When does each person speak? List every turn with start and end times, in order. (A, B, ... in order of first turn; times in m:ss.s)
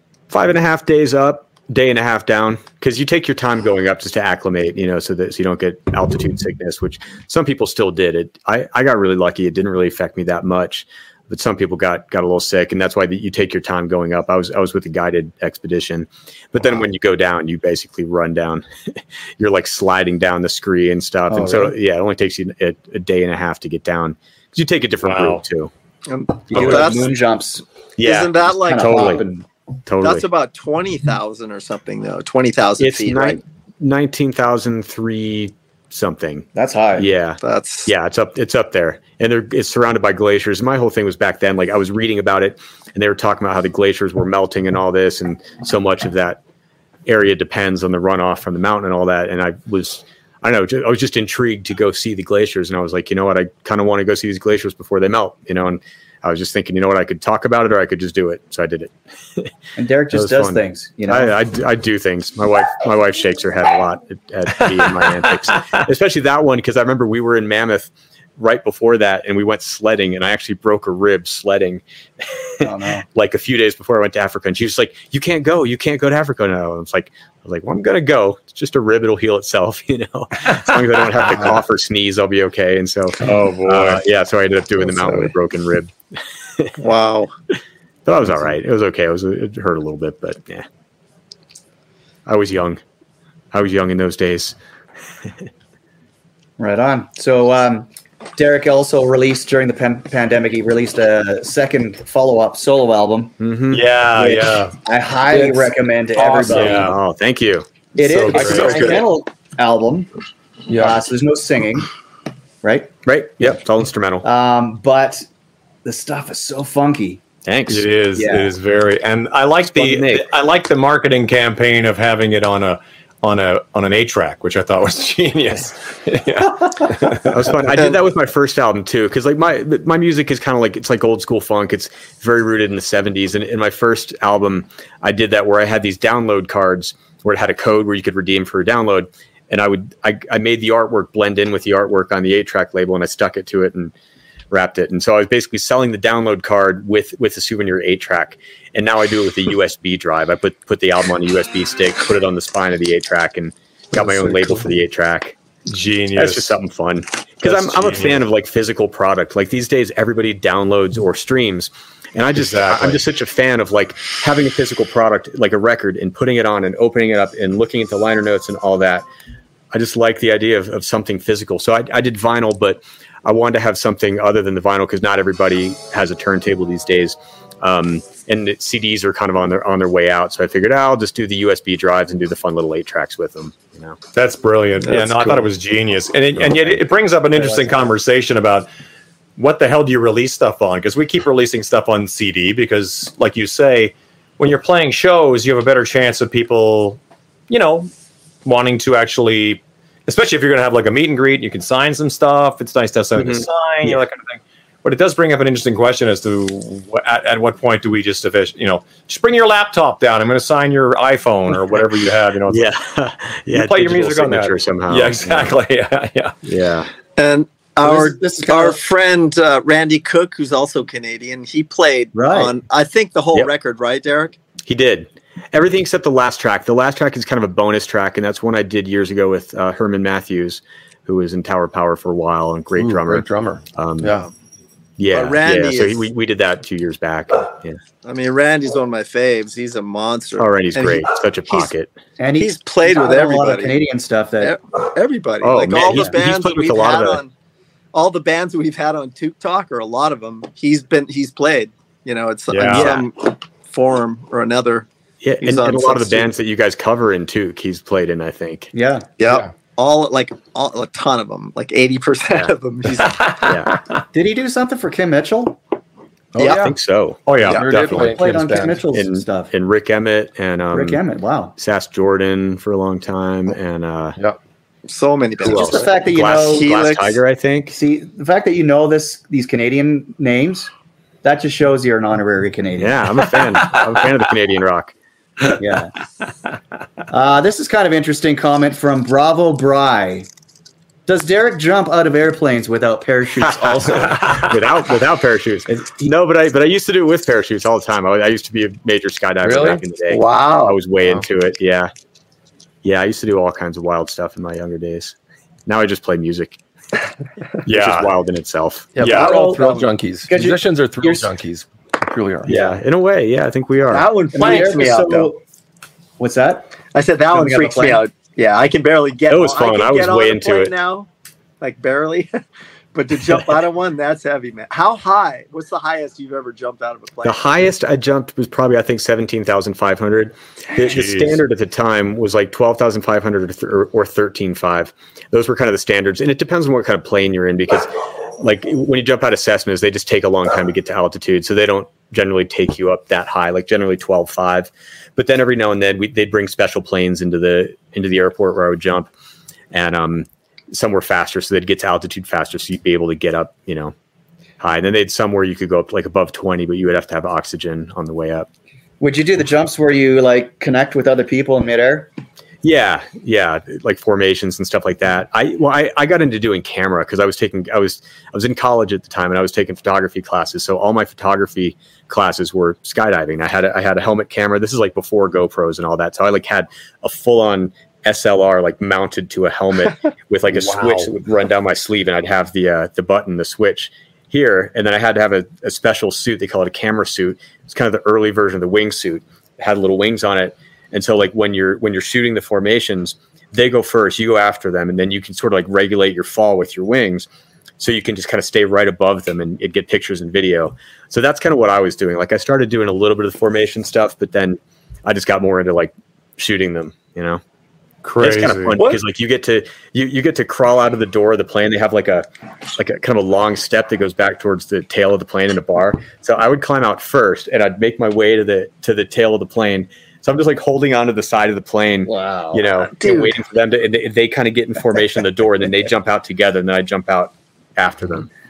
0:00.3-0:18.6 A
0:19.4-0:25.7 A
0:21.3-0:21.8 B
0:25.0-0:25.4 C
0:26.1-0:27.1 D
0:26.5-0:27.6 B
0:26.5-0:26.9 A
0:28.0-0:29.2 A
0:28.0-0:29.1 D
0:28.5-0:29.4 B
0:29.8-0:30.2 A
0:30.0-0:33.4 D
0:32.8-0:46.4 A
0:36.5-0:37.1 B
0:37.4-0:37.9 D
0:47.0-0:59.5 A
0:59.8-1:01.3 B
1:00.1-1:11.8 A
1:12.4-1:26.8 A
1:12.6-1:13.0 B
1:23.2-1:24.0 C
1:24.9-1:25.3 D
1:26.8-1:27.3 D
1:28.0-1:30.6 A
1:32.2-1:32.8 A
1:33.5-1:34.6 A
1:36.6-1:43.3 B
1:43.4-1:43.8 A
1:43.7-1:44.7 C
1:44.1-1:46.9 B
1:45.3-1:45.7 E
1:46.2-1:47.0 C
1:46.5-1:47.7 A
1:48.0-1:50.1 B
1:48.0-1:49.0 C
1:48.4-1:48.8 A
1:50.7-1:51.0 E
1:50.7-1:51.9 B
1:52.6-1:52.9 B
1:53.0-1:54.2 A
1:54.2-1:55.2 B
1:55.8-1:57.2 B
1:57.4-1:57.9 A
1:57.7-2:07.5 C
1:58.2-1:58.5 B
1:59.6-2:00.3 A
2:07.1-2:23.9 A
2:24.5-2:35.4 A
2:34.0-2:34.6 C
2:35.7-2:36.5 C
2:36.1-2:49.0 A
2:37.4-2:38.2 C
2:42.3-2:43.0 C
2:49.7-3:04.0 A
3:04.1-3:08.7 C
3:09.4-3:17.9 C
3:18.4-3:32.7 C
3:23.2-3:24.0 A
3:32.5-3:35.6 A
3:33.5-3:36.4 C
3:36.4-3:36.9 A
3:37.2-3:44.3 D
3:37.8-3:38.8 B
3:42.1-3:42.5 B
3:44.6-3:54.2 A
3:52.8-3:54.3 E
3:55.0-3:57.8 A
3:55.1-3:56.1 D
3:58.0-4:01.7 D
4:00.4-4:01.9 A
4:02.2-4:04.6 B
4:02.4-4:03.8 D
4:04.4-4:07.3 D
4:05.4-4:07.2 A
4:07.9-4:14.9 D
4:12.5-4:13.0 C
4:12.7-4:13.0 A
4:15.2-4:18.7 A
4:15.4-4:16.3 D
4:18.7-4:19.1 B
4:19.2-4:23.5 D
4:23.4-4:23.8 A
4:24.1-4:25.6 B
4:26.4-4:26.7 D
4:26.4-4:27.3 A
4:27.2-4:28.1 C
4:27.4-4:28.8 E
4:27.7-4:29.5 B
4:28.9-4:31.0 A
4:30.7-4:31.5 B
4:31.6-4:34.2 A
4:34.9-4:37.2 D
4:35.4-4:36.7 B
4:35.4-4:37.7 A
4:37.7-4:40.7 B
4:41.2-4:43.1 B
4:42.8-4:44.9 A
4:45.6-4:45.9 B
4:47.1-4:50.3 B
4:51.1-4:54.4 B
4:53.9-5:01.9 A
4:59.4-4:59.8 E
5:00.1-5:00.8 D
5:02.8-5:05.1 A
5:05.6-5:06.6 A
5:07.6-5:08.1 C
5:07.6-5:09.0 A
5:09.0-5:12.5 E
5:09.0-5:09.4 C
5:09.0-5:11.3 B
5:12.4-5:14.7 A
5:13.9-5:15.3 D
5:14.3-5:15.4 B
5:16.2-5:16.8 B
5:16.9-5:21.1 D
5:17.3-5:18.0 B
5:19.3-5:20.7 A
5:21.6-5:22.3 D
5:22.9-5:27.6 D
5:27.2-5:49.1 A
5:30.8-5:31.4 C
5:49.7-5:53.9 A
5:54.6-5:58.5 A
5:59.0-6:02.1 B
6:02.6-6:37.3 A
6:20.5-6:21.1 C
6:37.8-6:47.4 A
6:48.0-6:48.8 C
6:48.2-6:52.2 A
6:52.8-7:08.3 A
7:02.3-7:03.3 D